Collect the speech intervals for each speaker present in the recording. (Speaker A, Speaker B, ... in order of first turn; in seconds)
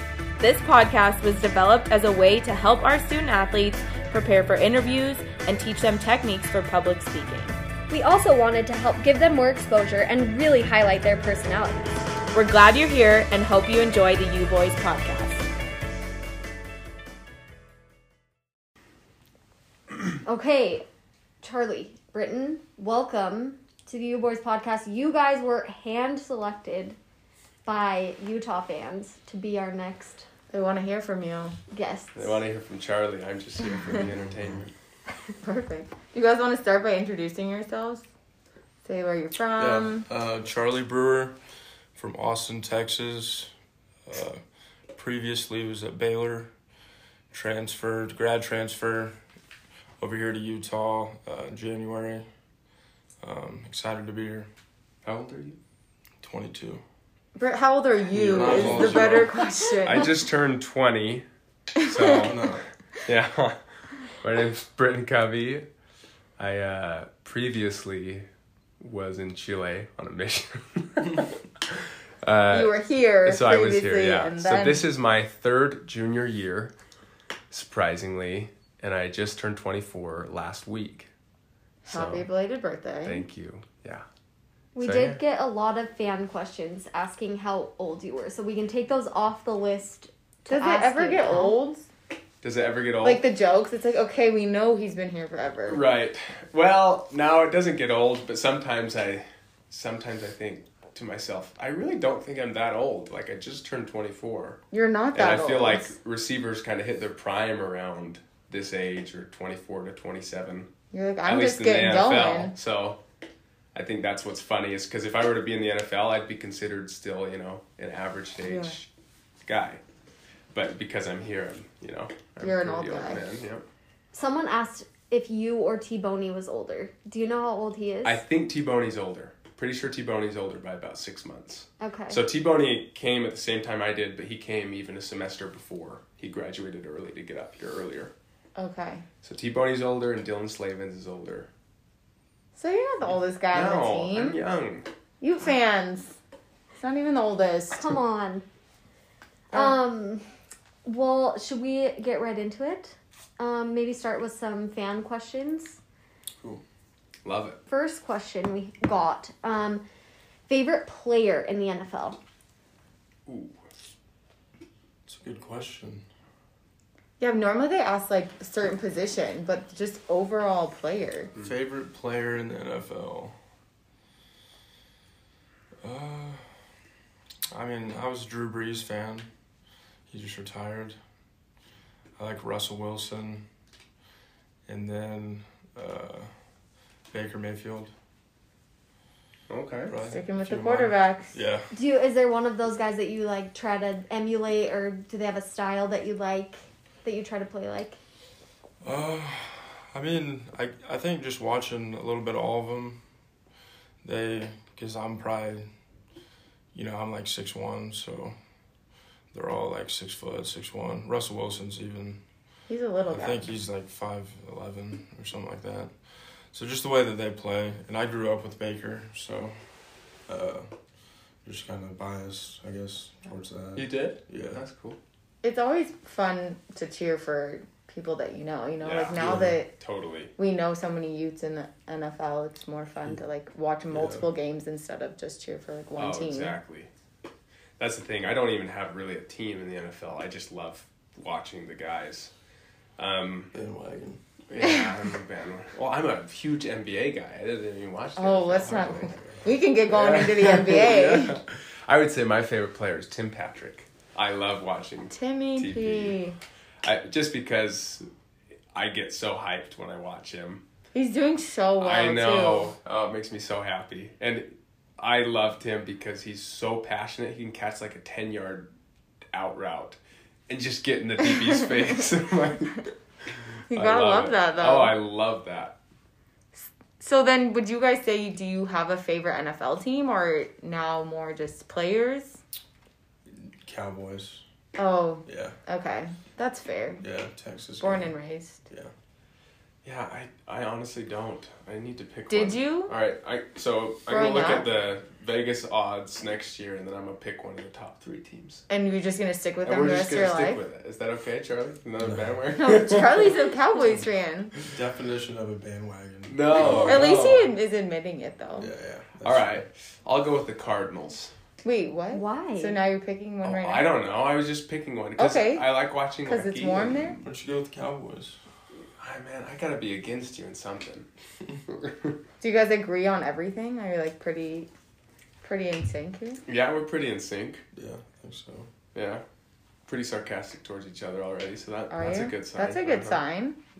Speaker A: 0.4-7.5, 12.3-15.4
Speaker B: 7.9-12.1, 20.2-20.9, 21.4-27.0, 27.6-30.3, 31.7-32.4, 84.8-91.6, 124.1-128.2, 131.8-132.2, 147.7-148.4, 149.5-150.3, 150.8-155.8, 157.7-159.8, 160.5-162.2, 191.7-198.0, 312.1-312.8
Speaker C: 30.5-31.6, 35.4-38.0, 38.8-40.1, 57.4-60.1, 72.5-74.8, 81.8-83.2, 90.5-91.9, 93.0-95.8, 104.7-105.9, 110.9-112.5, 118.5-118.8, 122.4-123.2, 138.6-139.1, 142.6-144.4, 145.2-146.2, 146.8-147.9, 149.5-149.8, 167.2-171.3, 190.1-191.4, 212.7-213.5, 225.4-229.7, 230.4-236.5, 248.2-251.4, 255.1-256.4, 260.9-262.7, 273.7-275.0, 277.0-282.4, 284.8-287.0, 287.8-288.6, 292.3-292.9, 294.1-294.7, 298.7-300.6, 302.6-304.5, 306.6-308.7, 311.6-313.9, 315.2-315.7, 316.3-317.2, 322.4-324.7, 325.4-326.4, 331.9-333.6
Speaker D: 32.1-34.7, 55.0-55.6, 58.3-59.3, 59.8-61.2, 61.8-65.7, 66.4-68.3, 68.8-76.7, 77.5-81.1, 81.9-82.3, 83.0-84.0, 84.8-85.2, 92.4-93.2, 95.7-104.6, 105.2-110.7, 111.2-113.0, 113.7-118.9, 119.5-119.8, 120.5-123.6, 128.1-138.1, 139.2-141.5, 143.1-144.9, 157.2-157.6, 163.3-163.6, 189.5-189.9, 223.8-225.0, 228.8-230.3, 236.0-236.9, 237.8-242.3, 243.0-243.5, 244.5-249.1, 249.9-256.2, 256.8-258.1, 258.7-260.6, 261.8-268.7, 269.3-275.8, 289.8-298.6, 299.6-303.4, 306.3-307.5, 309.2-311.3, 313.4-317.1, 319.0-321.1, 321.7-322.2, 326.5-327.6, 328.9-329.2, 329.9-333.2
Speaker E: 39.6-41.4, 42.0-43.5, 44.1-44.4, 44.9-46.5, 47.3-49.2, 50.0-52.3, 53.2-54.5, 56.2-56.8, 58.1-59.4, 62.0-62.6, 165.1-166.1, 171.4-173.3, 175.8-176.5, 177.5-179.3, 180.1-181.0, 182.2-183.4, 184.7-186.3, 187.1-187.9, 189.9-191.7, 198.8-203.0, 204.0-205.7, 206.7-208.3, 209.3-212.2, 213.1-215.9, 216.5-219.5, 220.3-220.7, 221.4-224.6, 229.2-229.6, 233.9-234.3, 243.5-244.2, 248.7-249.5, 283.3-284.4, 285.3-285.6, 287.0-288.1, 302.0-302.4, 304.6-307.2, 308.6-309.6, 317.1-318.4, 327.7-328.7